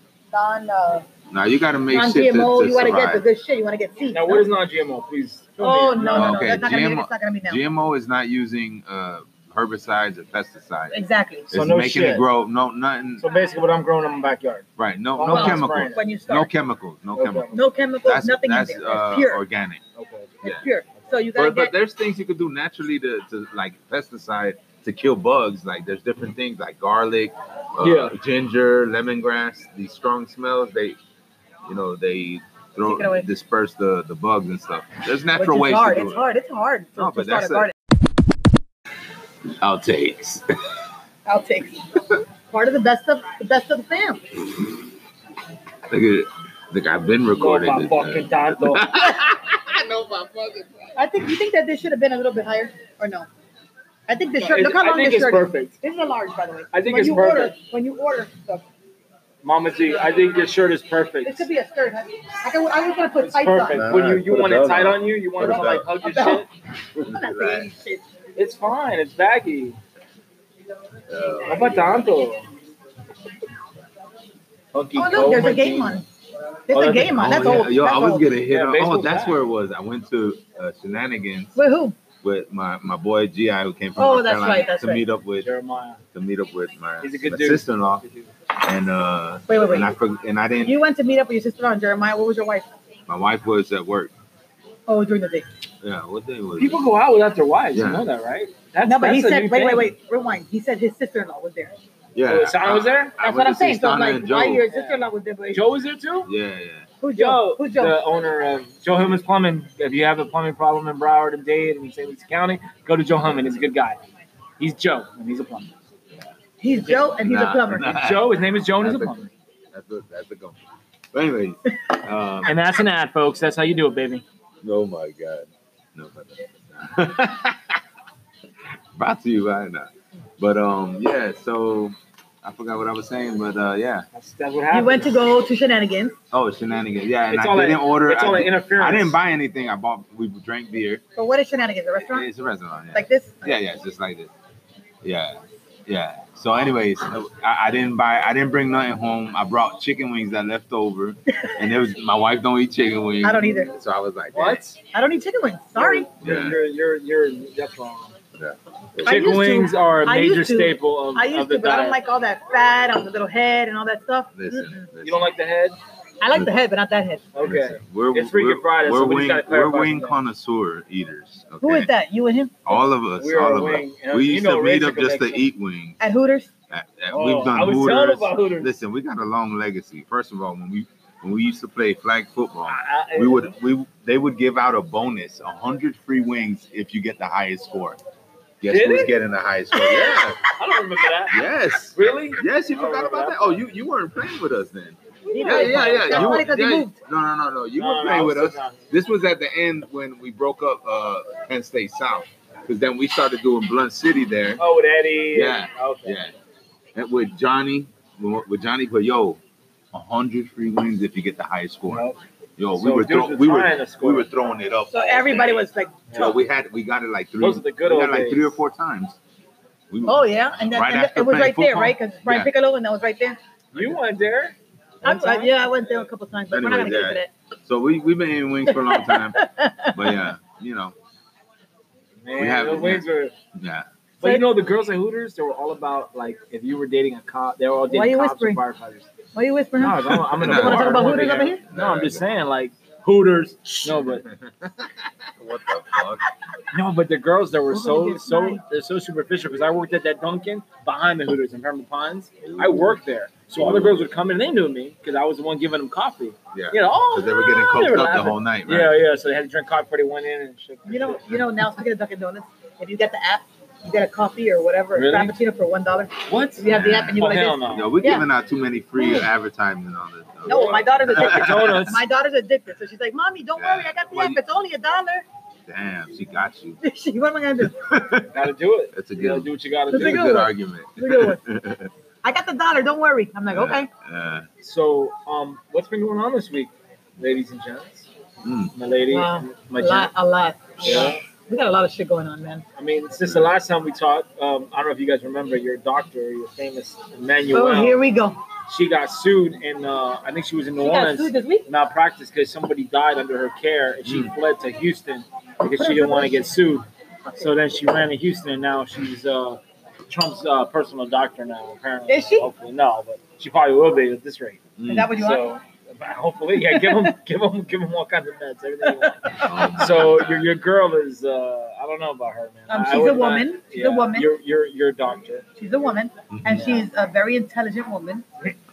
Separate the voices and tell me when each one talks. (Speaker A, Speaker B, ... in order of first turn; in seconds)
Speaker A: 0.3-1.1, 1.9-4.5, 5.6-7.6, 10.9-11.5, 15.3-16.5, 17.5-19.4, 20.4-21.7, 32.9-33.2, 35.4-37.7, 41.2-41.9, 42.5-44.2, 51.0-53.3, 54.1-58.6, 61.2-63.8, 65.4-66.5, 67.0-68.0, 74.9-76.0, 76.7-78.3, 81.5-82.0, 84.0-85.0, 89.5-89.9, 90.6-92.7, 94.9-95.5, 98.8-101.8, 103.2-105.7, 107.0-108.0, 116.6-118.0, 134.7-136.2, 141.2-142.3, 142.9-143.5, 153.2-153.7, 154.9-156.1, 159.0-164.8, 166.2-167.2, 171.6-172.5, 176.0-176.5, 195.3-196.9, 214.9-216.4, 220.1-223.4, 225.0-227.3, 228.7-230.3, 234.2-234.5, 237.9-238.6, 239.3-241.6, 247.7-248.6, 260.9-268.2, 268.9-269.3, 270.4-275.2, 276.8-277.8, 279.9-281.4, 282.2-283.9, 289.1-292.6, 297.5-298.4, 300.8-301.7, 305.7-306.5, 312.1-312.5, 314.9-315.6, 316.6-317.1, 319.0-319.5, 322.7-324.3, 325.6-328.2
Speaker B: 1.3-3.2, 6.1-11.0, 11.5-13.2, 14.8-17.5, 18.0-19.8, 20.4-20.7, 21.3-31.0, 31.6-36.2, 37.0-37.7, 39.6-40.4, 45.9-50.9, 63.7-66.0, 66.9-67.7, 71.1-72.0, 77.1-81.6, 82.2-85.5, 86.1-88.0, 88.6-90.8, 93.1-94.1, 95.8-96.8, 97.7-98.1, 102.1-104.6, 106.2-106.9, 117.1-120.6, 121.1-122.5, 124.6-127.8, 128.9-134.1, 136.3-141.0, 142.1-144.3, 145.0-154.6, 156.2-156.6, 158.4-159.0, 164.3-165.3, 167.4-171.9, 172.6-176.0, 176.7-188.0, 188.6-190.4, 191.3-204.6, 205.3-206.3, 206.9-209.4, 209.9-212.1, 212.6-215.6, 216.1-219.2, 219.9-222.5, 226.5-230.9, 232.3-233.8, 240.3-242.2, 243.8-246.2, 252.4-254.1, 256.5-259.0, 266.7-271.9, 273.6-274.4, 275.7-276.8, 277.8-278.3, 278.9-281.9, 283.5-284.5, 288.4-288.7, 293.2-293.5, 304.1-304.3, 314.8-315.1, 319.4-320.4, 326.3-326.7
Speaker C: 4.1-6.6, 11.5-12.2, 13.2-16.0, 17.1-17.6, 19.9-20.3, 27.8-28.1, 47.3-48.9, 54.4-55.7, 56.7-57.5, 59.4-61.5, 63.2-66.5, 68.3-69.8, 71.5-72.5, 74.7-76.0, 76.7-77.7, 78.4-79.4, 85.4-86.0, 87.0-88.3, 96.5-99.9, 102.2-103.2, 104.7-106.3, 107.2-114.0, 114.6-115.7, 116.8-117.1, 117.9-119.3, 122.4-124.2, 134.1-135.2, 137.3-139.2, 154.3-154.8, 155.8-158.1, 159.0-162.0, 165.0-165.8, 167.3-170.2, 172.7-175.5, 177.1-178.7, 182.7-183.5, 188.7-189.1, 190.4-193.6, 195.3-196.5, 197.8-198.9, 204.6-206.2, 211.9-212.2, 212.8-214.3, 216.1-216.3, 217.4-218.6, 223.7-226.1, 232.2-233.3, 234.2-239.1, 239.8-244.2, 246.7-261.4, 264.9-265.3, 266.3-268.1, 270.4-272.0, 278.3-280.5, 284.6-288.1, 288.7-290.1, 290.8-291.2, 292.8-298.0, 298.7-325.4